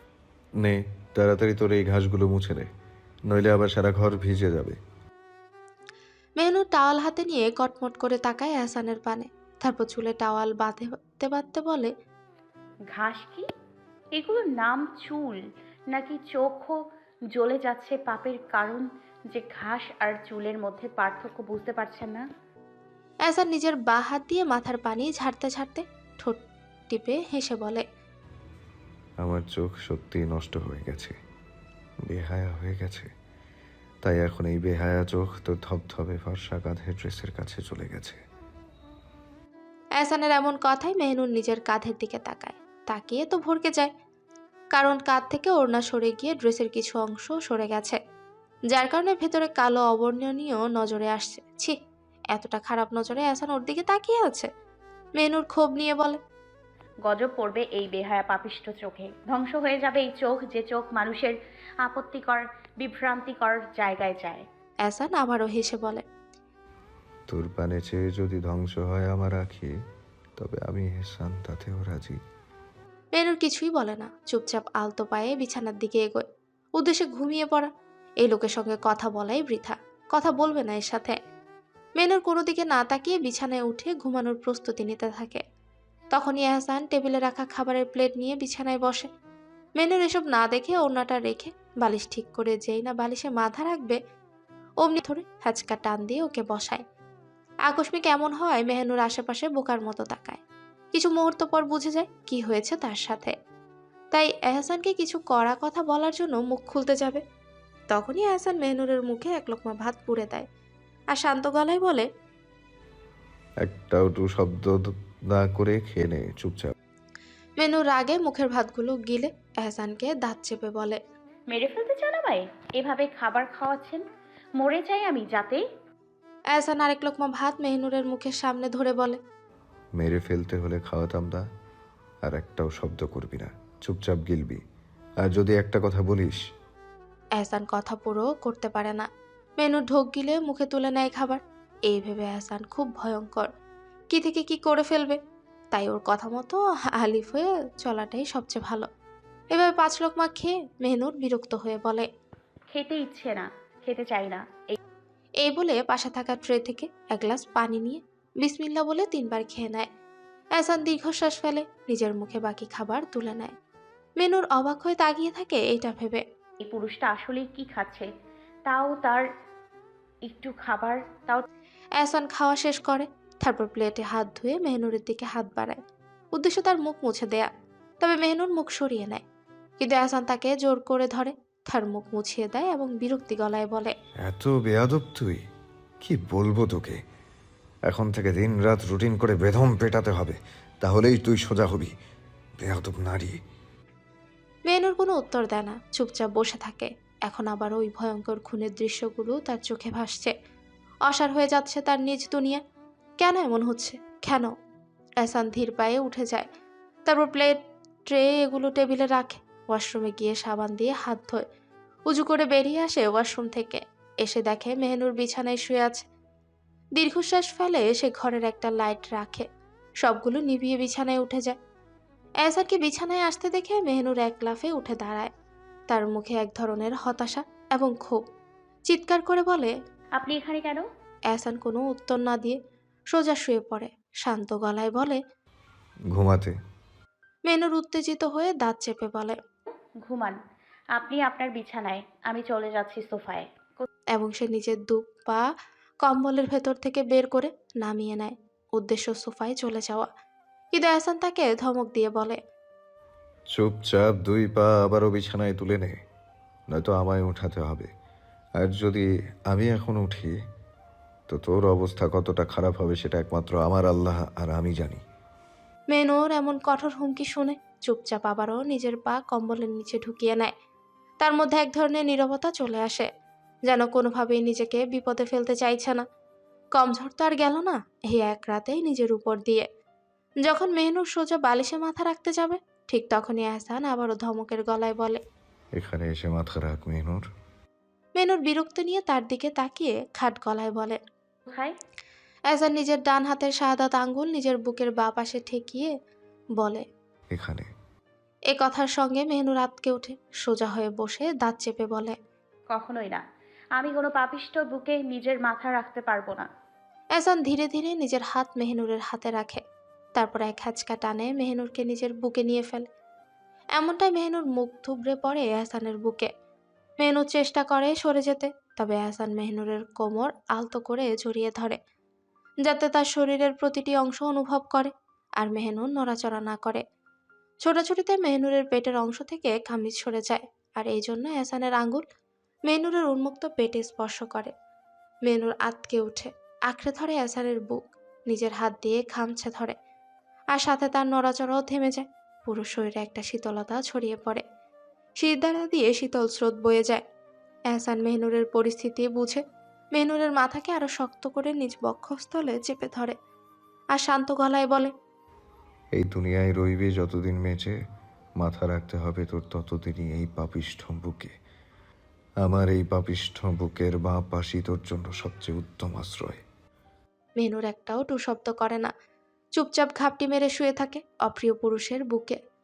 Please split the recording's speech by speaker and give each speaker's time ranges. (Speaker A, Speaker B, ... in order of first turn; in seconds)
Speaker A: 0.6-2.7, 3.3-4.8, 29.2-31.1, 32.1-33.1, 34.0-38.2, 67.3-69.7, 70.4-72.2, 113.6-116.7, 130.0-131.4, 132.2-134.6, 135.2-136.4, 184.2-185.4, 186.0-187.0, 187.9-191.9, 192.6-193.4, 236.1-236.5, 253.5-256.0, 256.7-257.9, 258.6-260.4, 261.3-265.0, 285.8-287.2, 297.3-297.7, 356.0-357.8, 358.4-361.3, 362.4-366.4
Speaker B: 6.4-11.9, 23.3-27.8, 40.0-43.9, 44.7-48.0, 48.7-51.8, 52.3-54.5, 55.2-56.2, 64.9-66.0, 73.2-76.3, 76.8-77.7, 78.2-81.2, 82.0-85.4, 86.1-89.1, 89.8-94.0, 94.8-96.8, 97.7-100.4, 100.9-103.3, 104.1-107.2, 107.9-110.5, 111.1-112.1, 117.6-121.0, 126.5-129.2, 137.4-139.1, 139.6-143.5, 144.1-145.2, 145.7-148.9, 149.5-152.1, 155.4-159.9, 160.6-163.5, 164.2-166.2, 172.0-175.8, 176.3-177.5, 178.0-179.2, 179.8-183.9, 194.7-200.3, 201.1-202.6, 203.2-204.5, 205.2-206.5, 207.1-211.4, 212.1-216.0, 217.0-219.5, 220.0-221.6, 222.4-225.3, 225.9-228.2, 228.9-229.7, 231.3-232.6, 233.1-235.2, 237.5-239.4, 244.1-245.4, 246.0-250.1, 250.7-252.4, 265.9-270.5, 271.2-273.1, 273.7-276.0, 276.8-279.7, 280.4-285.2, 288.2-291.0, 292.5-295.9, 296.6-296.8, 298.5-302.2, 307.2-309.6, 310.2-312.9, 313.8-316.3, 317.0-321.8, 322.6-326.8, 327.6-332.0, 332.7-334.5, 335.3-339.8, 340.6-344.4, 345.2-347.0, 347.7-349.4, 349.9-353.2, 353.9-354.9, 367.4-368.9, 369.6-372.4
Speaker C: 12.9-13.5, 14.2-15.4, 15.9-16.8, 17.3-22.2, 57.0-64.4, 121.5-124.0, 124.6-125.6, 152.7-154.8, 166.7-168.1, 168.7-169.2, 170.3-171.5, 230.2-230.8, 240.0-240.4, 241.0-243.9, 291.5-291.8, 302.7-303.2, 303.8-306.5